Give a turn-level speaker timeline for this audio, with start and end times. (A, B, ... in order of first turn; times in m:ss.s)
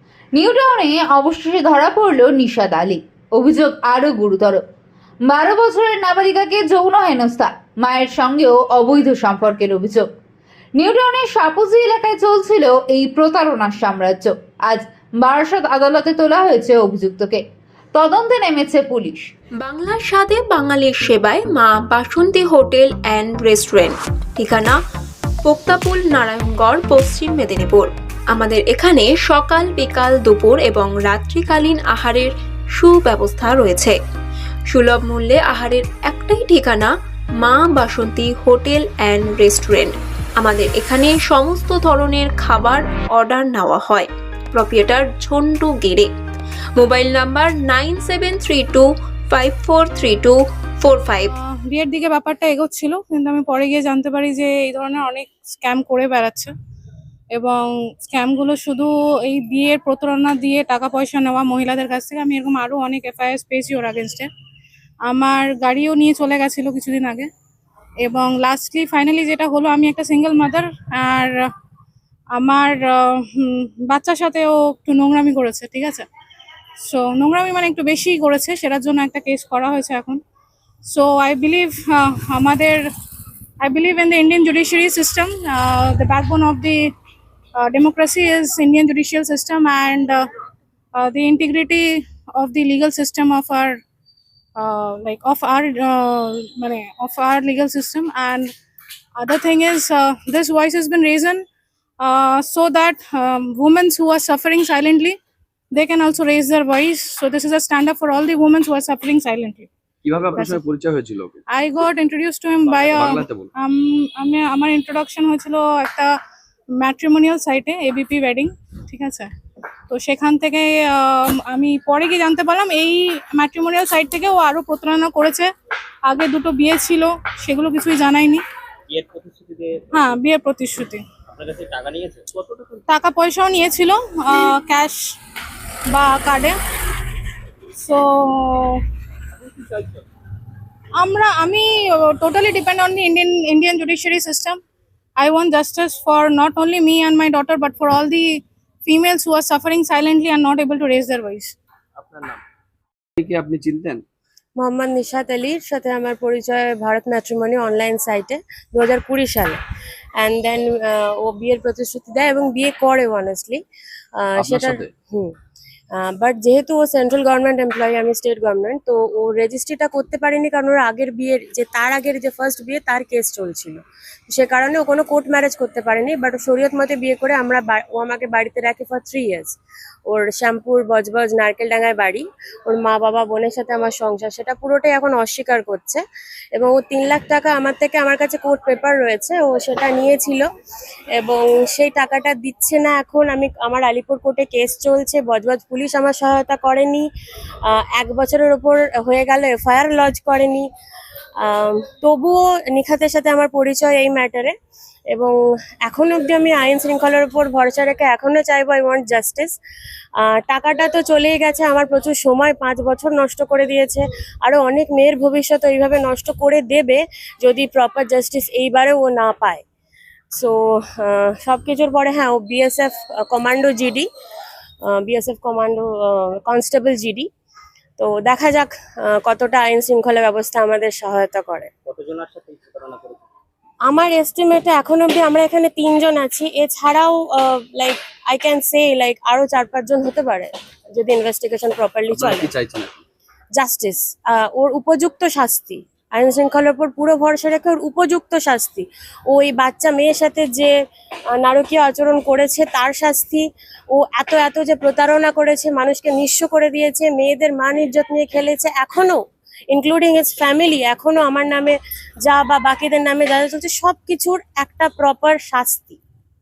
0:00.3-0:04.6 A
0:05.2-0:10.1 A
0:10.8-0:17.4 A
0:17.9-0:19.3 A
0:19.6-0:24.8 B
0:25.4-0:34.0 B
0:34.7-0:46.1 B
0:46.8-0:51.3 B
0:51.3-0:56.5 C
0:57.3-1:04.3 C
1:05.1-1:07.3 C
1:08.0-1:11.5 C
1:12.3-1:16.1 C
1:16.8-1:20.2 C
1:20.8-1:22.9 C
1:23.6-1:26.8 C
1:27.6-1:30.2 C
1:31.0-1:33.8 C
1:34.6-1:38.5 C
1:39.2-1:41.4 C
1:42.0-1:45.2 C
1:45.7-1:49.7 C
1:50.0-1:51.4 D
1:50.3-1:50.6 C
1:51.5-1:56.1 C
1:52.7-1:53.5 D
1:56.7-1:59.3 C
1:59.9-2:05.5 C
2:06.0-2:08.4 C
2:08.9-2:10.1 E
2:09.9-2:11.0 C
2:11.3-2:12.8 E
2:12.9-2:15.2 C
2:15.9-2:16.6 C
2:17.7-2:18.8 C
2:19.6-2:20.0 E
2:21.0-2:24.6 C
2:25.2-2:28.3 C
2:28.8-2:31.5 C
2:32.0-2:32.4 D
2:33.2-2:34.0 D
2:34.6-2:39.6 F
2:40.2-2:43.6 F
2:44.2-2:45.3 F
2:44.4-2:44.9 D
2:46.0-3:06.0 F
3:06.5-3:10.5 F
3:11.2-3:17.1 F
3:17.7-3:20.7 F
3:21.4-3:24.5 F
3:25.8-3:29.5 F
3:30.2-3:39.6 F
3:40.4-3:44.1 F
3:44.9-3:47.3 F
3:48.0-3:51.7 F
3:51.8-3:53.3 E
3:53.9-4:02.5 F
4:02.1-4:03.0 D
4:03.6-4:10.7 F
4:11.4-4:19.2 F
4:19.7-4:26.0 F